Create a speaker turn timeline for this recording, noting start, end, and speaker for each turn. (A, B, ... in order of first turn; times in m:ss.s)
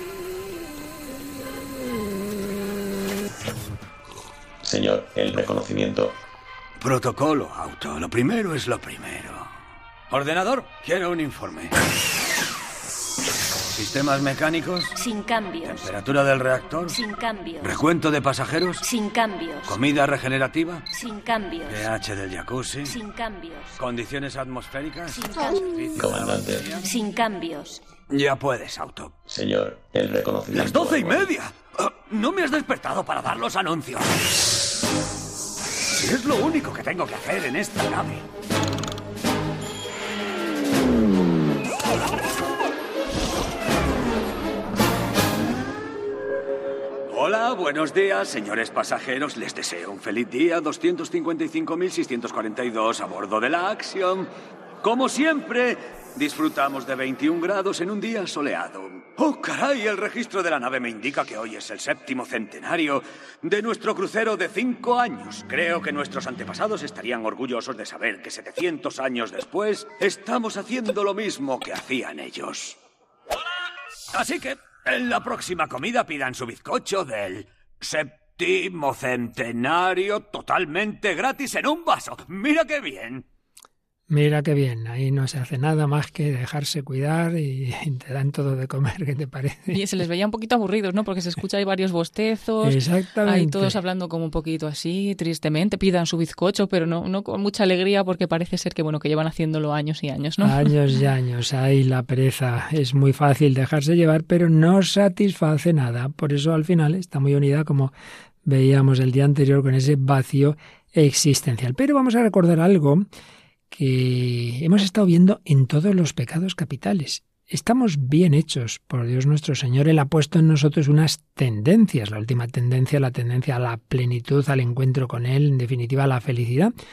0:04.6-0:06.2 A
0:06.8-0:09.5 B
0:10.1-0:11.7 B
0:13.7-0:15.0 B
0:15.0-0:15.9 C
0:15.6-0:17.0 B
0:16.9-0:17.8 C
0:17.6-0:18.8 B
0:18.8-0:19.8 C
0:19.7-0:20.8 B
0:20.9-0:21.9 C
0:21.7-0:23.0 B
0:22.8-0:23.8 C
0:23.8-0:26.8 B
0:25.1-0:25.7 C
0:25.9-0:26.8 A
0:26.8-0:27.8 C
0:28.1-0:29.2 B
0:29.3-0:31.3 A
0:30.5-0:34.4 B
0:36.0-0:38.2 B
0:47.1-0:54.3 B
0:54.8-1:12.8 B
1:14.1-1:23.2 B
1:24.1-1:29.8 D
1:29.7-1:40.7 E
1:32.6-1:33.8 D
1:40.4-1:47.9 D
1:48.4-1:53.0 D
1:53.7-2:06.7 D